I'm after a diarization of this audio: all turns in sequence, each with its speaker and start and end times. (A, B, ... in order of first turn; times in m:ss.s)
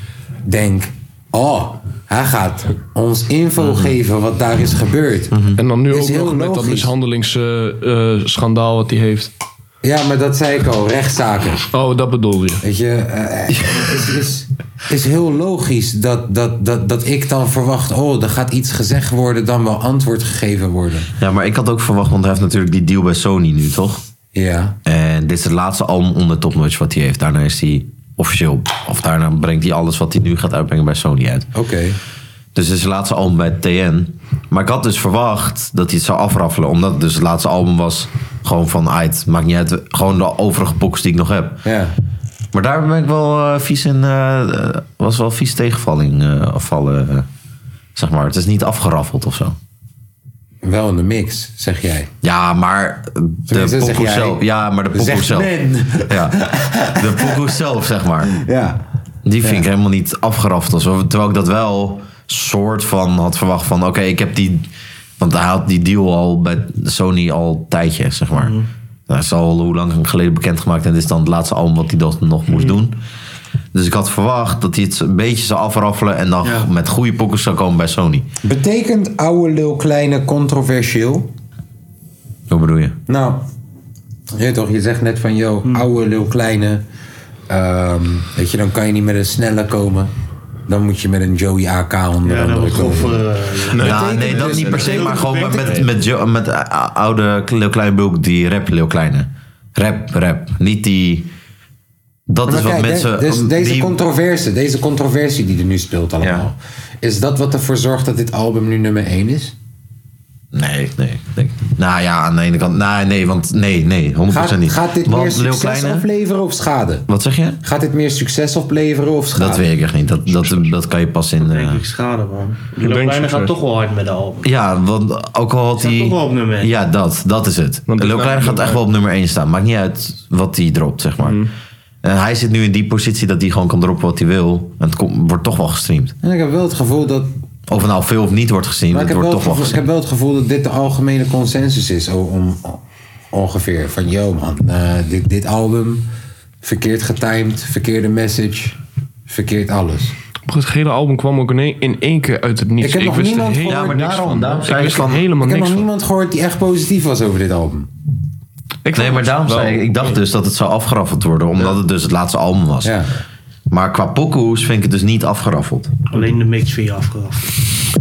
0:00.4-0:06.9 A
0:03.6-0:03.9 B
0:05.3-0:05.6 B
0:05.6-0:09.3 C
0:09.8-0:11.7 A
0:11.7-0:12.6 C
0:12.6-0:21.1 A
0:21.2-0:24.0 B
0:24.3-0:24.8 A
0:24.8-0:31.5 B
0:31.5-0:32.0 A
0:32.5-0:41.6 B
0:41.6-0:41.9 A
0:42.5-0:47.3 B
0:47.9-0:49.6 B
0:50.6-0:52.1 A
0:52.2-0:55.5 B
0:53.5-0:57.4 A
0:56.1-0:56.4 B
0:56.9-0:58.3 B
0:58.3-0:58.8 A
0:59.2-1:04.7 B
0:59.4-0:59.7 A
1:05.2-1:08.6 B
1:08.3-1:08.7 D
1:09.1-1:13.0 B
1:13.7-1:18.3 B
1:16.4-1:16.7 D
1:18.4-1:21.3 A
1:22.5-1:23.0 B
1:23.1-1:23.4 A
1:24.3-1:26.8 A
1:27.5-1:30.1 A
1:30.7-1:35.2 A
1:32.2-1:35.9 D
1:33.7-1:35.8 C
1:33.8-1:41.3 B
1:42.3-1:44.0 B
1:42.4-1:49.5 A
1:46.2-1:46.4 B
1:50.5-1:56.0 B
1:54.3-1:57.1 A
1:57.1-1:57.6 B
1:57.6-1:59.7 A
1:59.4-2:01.8 B
2:00.3-2:00.6 A
2:01.4-2:04.5 D
2:02.8-2:03.5 C
2:04.4-2:11.4 B
2:05.8-2:06.7 D
2:07.9-2:08.8 C
2:11.2-2:11.5 C
2:12.0-2:16.1 B
2:16.2-2:17.3 A
2:17.7-2:19.8 B
2:18.9-2:26.0 A
2:26.6-2:30.1 A
2:30.5-2:35.9 C
2:32.8-2:34.0 A
2:33.6-2:35.3 B
2:35.4-2:37.9 A
2:38.8-2:40.2 C
2:38.9-2:43.0 B
2:42.8-2:43.1 A
2:43.7-2:45.9 B
2:46.1-2:47.5 D